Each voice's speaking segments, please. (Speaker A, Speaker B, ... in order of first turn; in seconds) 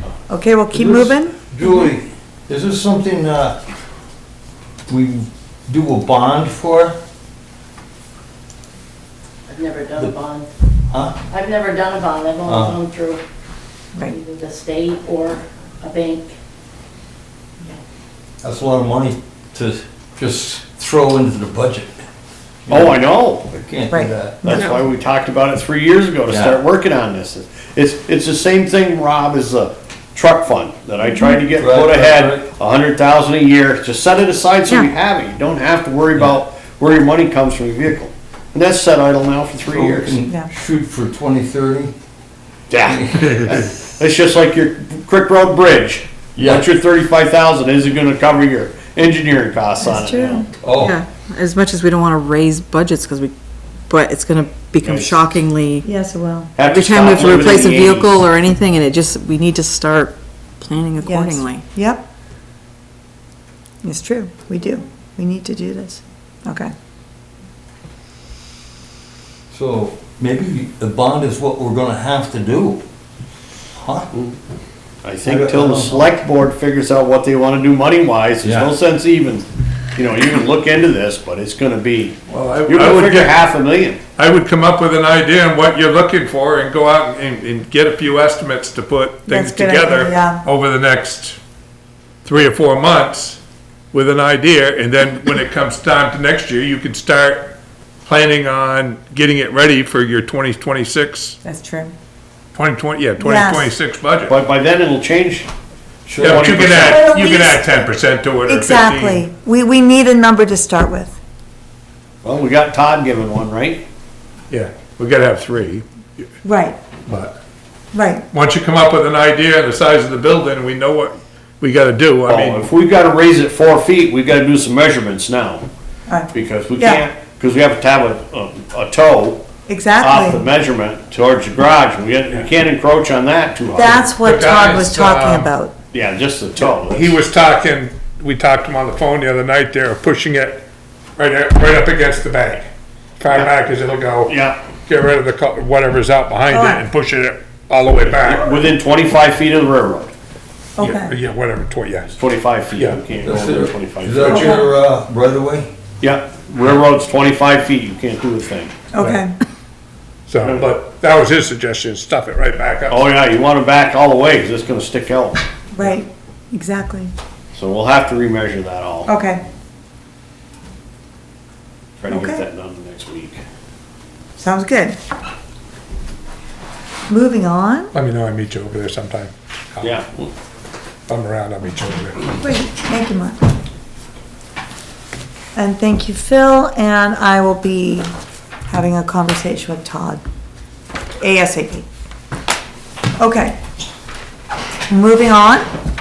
Speaker A: 0.3-1.3, 23.9-24.8, 49.8-50.5, 55.8-56.5, 61.0-62.1, 63.8-66.7, 89.3-90.4, 101.4-101.9, 103.2-103.7, 106.7-107.9, 108.5-111.2, 116.4-116.8, 117.9-118.2, 126.1-127.0, 129.7-130.4, 133.7-135.7, 146.5-146.8, 150.8-151.1, 154.2-154.7, 158.9-159.3, 165.7-167.1, 169.1-169.4, 172.1-172.4, 174.4-174.9, 177.1-177.9, 182.4-183.5, 185.5-188.1, 188.7-190.2, 191.2-191.8, 193.2-193.6, 194.9-195.7
Speaker B: 0.7-3.6, 4.9-7.0, 10.9-11.2, 12.4-12.8, 18.4-22.1, 22.6-23.0, 23.5-24.4, 26.3-26.6, 31.5-32.5, 39.7-41.9, 42.9-43.4, 46.4-46.6, 50.6-51.0, 69.5-72.8, 73.7-74.1, 75.2-76.1, 78.4-78.7, 106.0-106.5, 153.2-155.7
Speaker C: 9.5-10.5, 11.3-13.2, 14.0-16.3
Speaker D: 22.7-23.4, 24.4-40.1, 42.7-50.5, 54.8-55.2, 56.5-58.2, 75.0-82.2, 82.7-84.0, 104.3-105.5, 106.2-107.1, 112.2-113.8, 122.3-125.6, 126.3-129.4, 130.0-134.1, 135.9-137.2, 144.2-144.6, 148.0-150.1, 152.2-154.6, 156.0-158.7, 160.4-160.7, 162.9-165.4, 167.5-169.1, 172.0-173.4, 179.8-180.3
Speaker E: 50.8-53.3, 53.9-55.9, 56.6-61.7
Speaker F: 82.3-83.3, 84.2-91.4, 92.2-93.4, 93.9-97.5, 98.0-101.4, 102.5-104.3, 106.2-109.2, 114.5-116.2, 117.1-117.4, 118.3-122.7, 134.2-135.5, 136.7-140.6, 141.2-142.7, 143.2-144.3, 144.9-148.6, 150.8-152.1, 152.7-153.0, 159.0-159.2, 160.3-163.0, 177.9-179.9, 181.1-182.3